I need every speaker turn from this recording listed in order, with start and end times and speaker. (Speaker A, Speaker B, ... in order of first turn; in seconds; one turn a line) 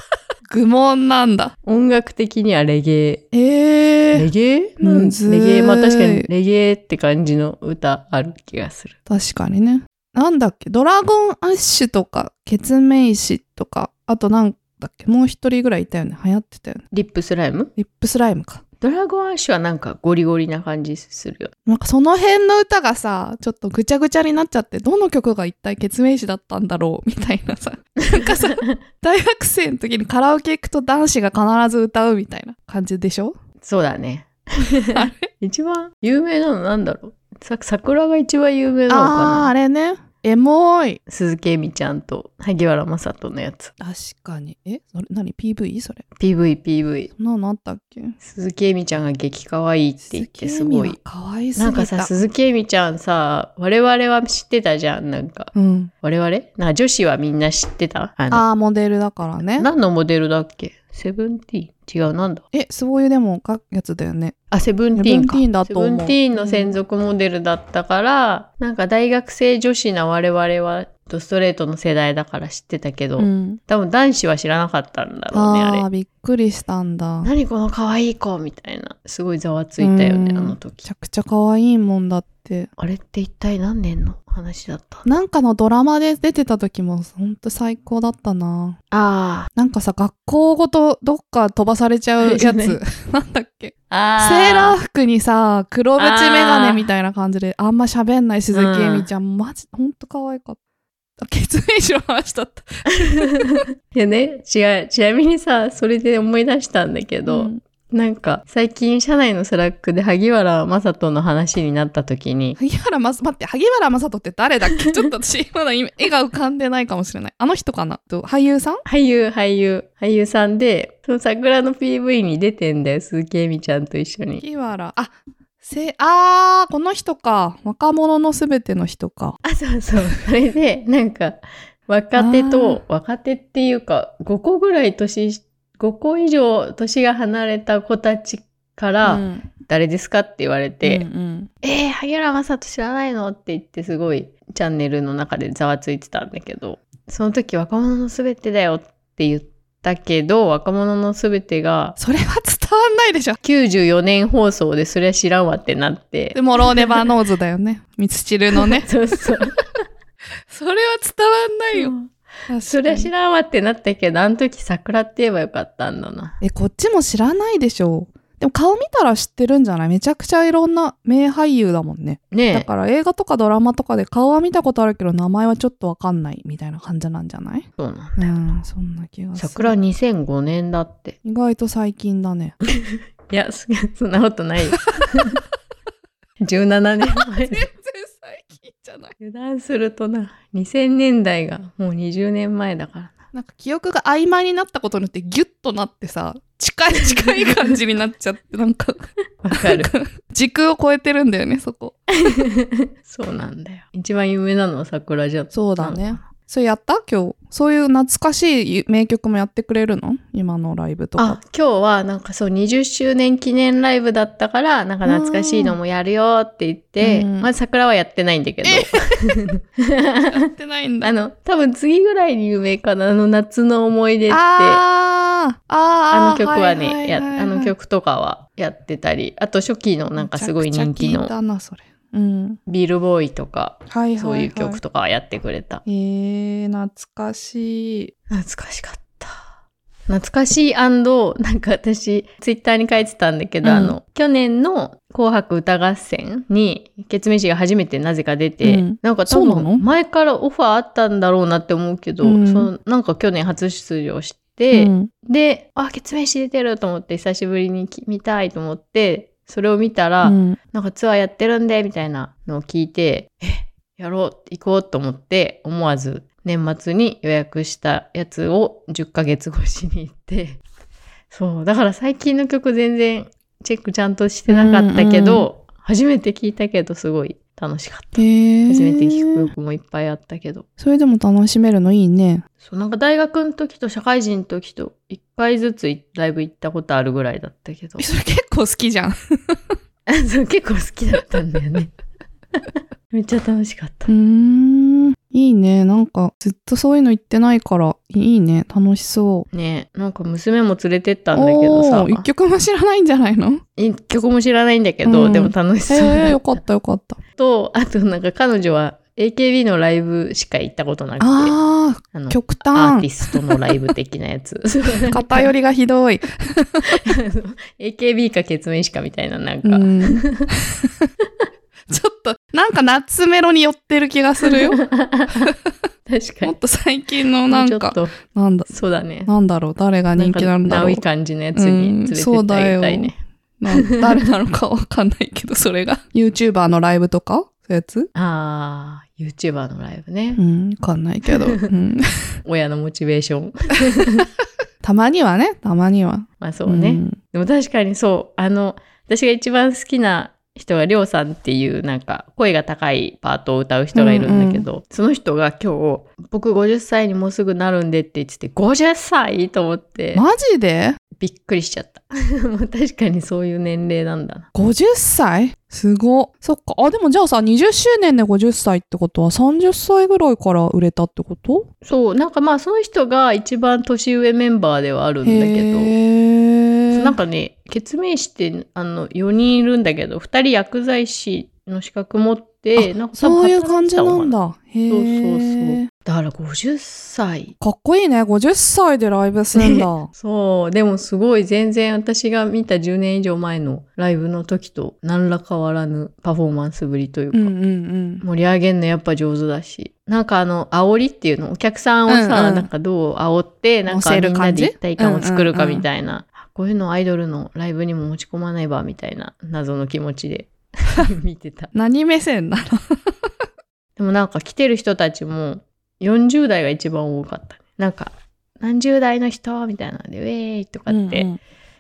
Speaker A: 0.5-1.6
Speaker B: 1.7-3.2
Speaker A: 3.3-4.3
Speaker B: 4.1-9.0
Speaker A: 4.8-6.3
Speaker A: 9.1-16.9
Speaker B: 16.9-17.7
Speaker A: 17.8-18.6
Speaker B: 18.8-21.5
Speaker A: 21.7-33.4
Speaker B: 28.4-28.8
Speaker B: 33.6-39.5
Speaker A: 34.9-35.3
Speaker A: 38.9-41.0
Speaker B: 41.1-43.7
Speaker A: 43.8-46.0
Speaker B: 46.2-47.1
Speaker A: 47.2-48.2
Speaker B: 48.2-51.0
Speaker A: 50.0-52.2
Speaker B: 51.6-58.4
Speaker A: 55.5-55.9
Speaker A: 58.3-59.7
Speaker B: 59.5-62.5
Speaker A: 62.5-64.4
Speaker B: 64.5-75.9
Speaker A: 65.0-66.8
Speaker A: 73.2-73.6
Speaker A: 75.3-77.3
Speaker B: 77.2-80.8
Speaker A: 79.8-82.7
Speaker B: 82.8-85.1
Speaker A: 85.0-88.8
Speaker B: 88.9-89.5
Speaker A: 89.6-100.6
Speaker B: 92.2-92.8
Speaker B: 93.9-94.8
Speaker B: 96.0-96.9
Speaker B: 98.5-99.1
Speaker A: 101.2-103.7
Speaker B: 103.9-112.6
Speaker A: 107.3-107.6
Speaker A: 112.6-118.8
Speaker B: 114.7-115.0
Speaker B: 118.9-124.4
Speaker A: 124.4-129.4
Speaker B: 129.4-141.1
Speaker A: 132.2-132.8
Speaker A: 139.0-139.5
Speaker A: 140.8-141.5
Speaker B: 141.6-152.0
Speaker A: 152.0-153.4
Speaker B: 153.4-157.0
Speaker A: 156.3-159.4
Speaker B: 158.6-159.5
Speaker A: 160.5-161.9
Speaker B: 161.7-166.4
Speaker A: 162.5-163.1
Speaker A: 166.4-179.8
Speaker B: 172.3-172.7
Speaker B: 177.8-178.3
Speaker B: 179.4-181.2
Speaker A: 181.2-182.6
Speaker B: 182.8-185.4
Speaker B: 186.4-187.7
Speaker A: 187.1-189.2
Speaker B: 189.2-193.2
Speaker A: 193.3-202.1
Speaker B: 197.1-197.5
Speaker B: 199.4-199.9
Speaker B: 202.2-206.3
Speaker A: 205.5-211.4
Speaker B: 211.2-220.2
Speaker A: 215.0-215.8
Speaker A: 217.0-217.5
Speaker A: 218.6-219.5
Speaker A: 220.2-221.1
Speaker B: 221.0-224.8
Speaker A: 224.3-227.8
Speaker B: 226.1-231.3
Speaker A: 230.2-232.6
Speaker B: 232.7-235.8
Speaker A: 233.9-234.8
Speaker A: 235.9-238.1
Speaker B: 238.3-239.5
Speaker B: 240.1-270.6
Speaker A: 243.6-244.0
Speaker A: 248.6-249.8
Speaker A: 252.2-252.7
Speaker A: 254.7-255.1
Speaker A: 260.2-260.6
Speaker B: 271.3-280.6
Speaker A: 274.5-275.5
Speaker A: 278.2-279.5
Speaker A: 280.8-282.4
Speaker B: 282.6-288.0
Speaker A: 288.0-289.6
Speaker B: 290.1-291.9
Speaker B: 293.1-294.1
Speaker A: 294.1-299.5
Speaker B: 299.5-302.2
Speaker A: 301.3-303.6
Speaker B: 303.8-306.6
Speaker A: 305.1-307.2
Speaker B: 307.4-311.6
Speaker A: 311.2-313.7
Speaker B: 312.1-315.5
Speaker A: 315.1-317.0
Speaker B: 316.9-320.5
Speaker A: 319.6-321.1
Speaker A: 321.9-325.7
Speaker B: 324.5-325.5
Speaker B: 326.1-326.5
Speaker A: 326.4-328.7
Speaker B: 327.5-328.1
Speaker B: 328.7-329.3
Speaker A: 329.3-331.0
Speaker B: 330.2-333.2
Speaker A: 331.6-338.1
Speaker B: 333.7-334.1
Speaker B: 338.1-340.4
Speaker A: 340.4-342.1
Speaker B: 342.4-344.2
Speaker A: 344.8-347.2
Speaker B: 346.4-360.2
Speaker A: 353.9-354.7
Speaker A: 360.1-361.0
Speaker B: 361.2-364.5
Speaker A: 364.6-371.7
Speaker B: 371.8-375.9
Speaker A: 375.2-377.1
Speaker B: 376.9-384.4
Speaker A: 382.8-385.9
Speaker B: 384.9-387.5
Speaker A: 387.6-390.1
Speaker B: 389.6-397.5
Speaker A: 397.3-398.2
Speaker B: 398.2-411.7
Speaker A: 402.1-402.7
Speaker A: 403.9-405.9
Speaker A: 411.7-412.8
Speaker B: 414.0-421.3
Speaker A: 420.9-421.4